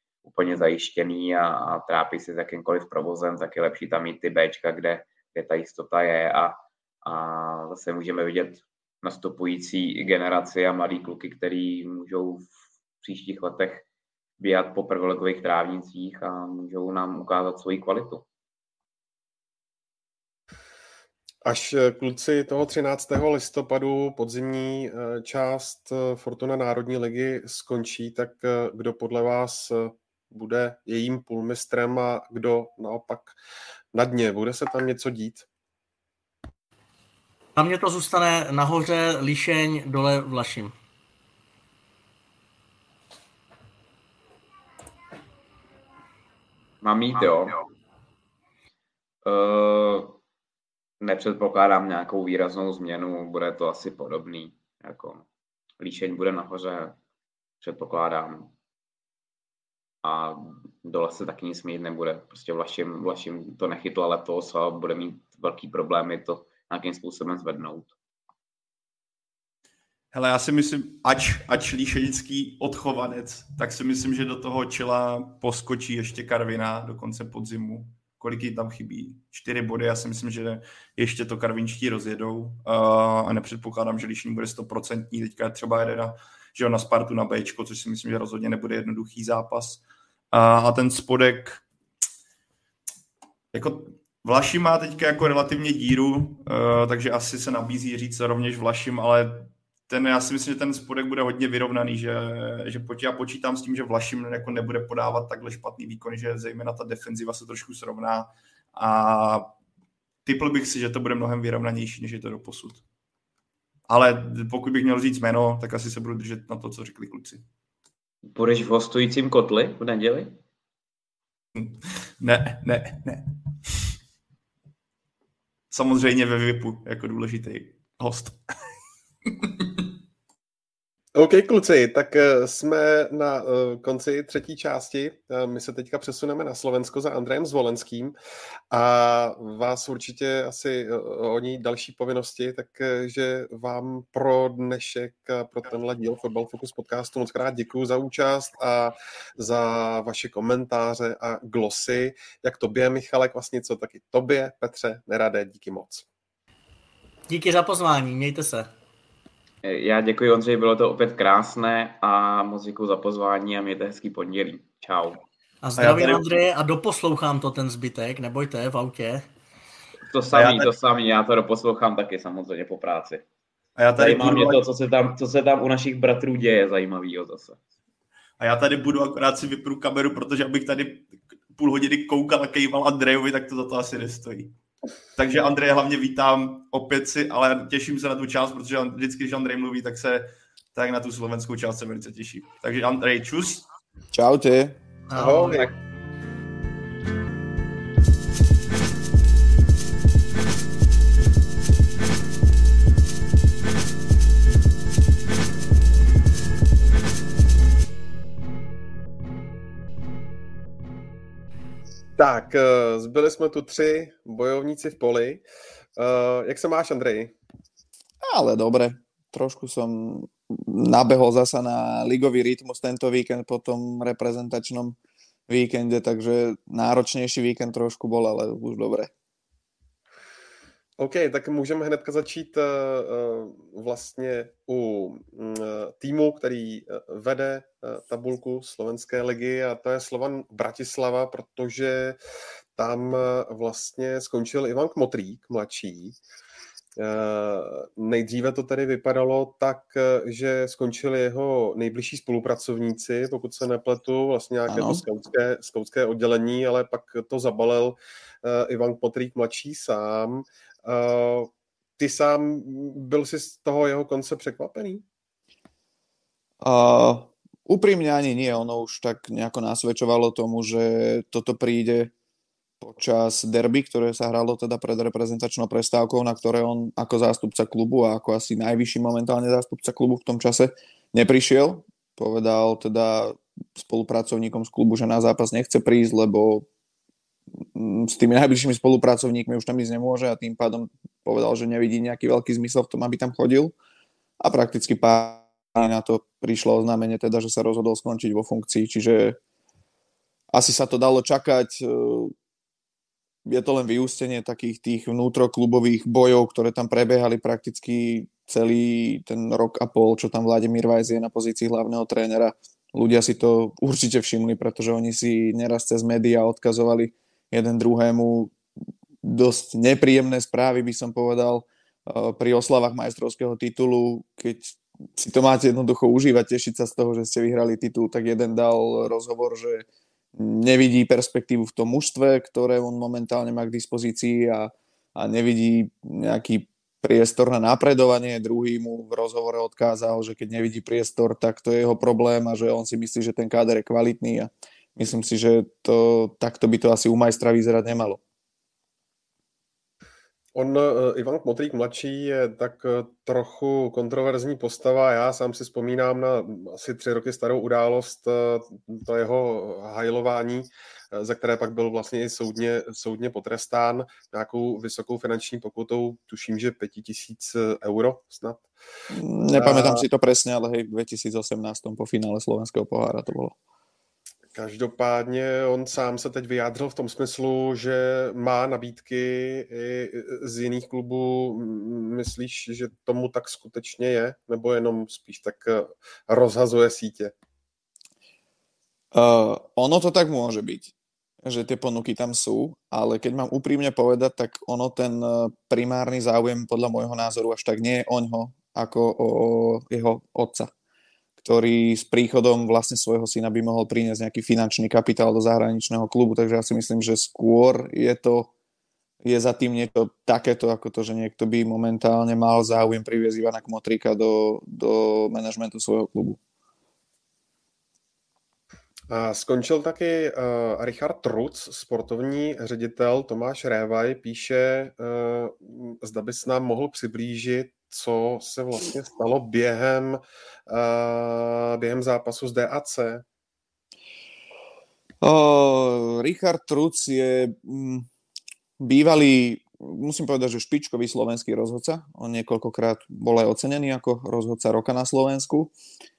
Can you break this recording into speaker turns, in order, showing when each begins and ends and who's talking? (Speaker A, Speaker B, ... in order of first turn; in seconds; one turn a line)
Speaker A: 0.2-12.5
Speaker A: 13.0-13.8
Speaker A: 14.4-18.2
Speaker B: 21.4-33.4
Speaker B: 33.9-35.5
Speaker C: 37.6-40.7
Speaker A: 46.8-47.6
Speaker A: 49.2-50.2
Speaker A: 51.0-55.2
Speaker A: 55.8-57.0
Speaker A: 57.6-58.5
Speaker A: 60.0-67.9
Speaker D: 70.1-91.6
Speaker D: 93.5-109.5
Speaker D: 110.2-112.8
Speaker D: 113.9-117.4
Speaker A: 118.3-120.4
Speaker D: 121.5-123.8
Speaker D: 125.7-128.4
Speaker D: 129.3-129.9
Speaker B: 131.2-138.1
Speaker B: 138.7-156.1
Speaker C: 157.3-158.7
Speaker A: 159.6-165.2
Speaker C: 165.6-169.2
Speaker D: 165.8-166.2
Speaker A: 170.1-173.2
Speaker D: 170.3-170.7
Speaker D: 173.8-174.6
Speaker A: 174.0-177.6
Speaker D: 178.4-184.5
Speaker D: 185.2-193.7
Speaker E: 194.1-194.8
Speaker C: 195.1-195.7
Speaker B: 195.2-195.7
Speaker B: 212.2-215.4
Speaker B: 215.9-217.3
Speaker E: 218.2-224.9
Speaker E: 225.5-229.1
Speaker B: 231.0-242.2
Speaker B: 242.8-246.2
Speaker B: 247.0-265.0
Speaker E: 254.7-255.0
Speaker E: 266.6-272.1
Speaker E: 272.8-286.6
Speaker E: 287.7-293.7
Speaker E: 294.4-299.4
Speaker E: 300.5-302.3
Speaker E: 303.4-318.6
Speaker E: 319.2-348.2
Speaker B: 350.6-368.7
Speaker E: 369.1-373.6
Speaker B: 369.6-370.1
Speaker B: 374.5-387.3
Speaker E: 389.1-400.7
Speaker E: 401.4-408.5
Speaker E: 409.2-416.4
Speaker B: 419.1-433.2
Speaker E: 435.2-438.1
Speaker E: 438.8-445.7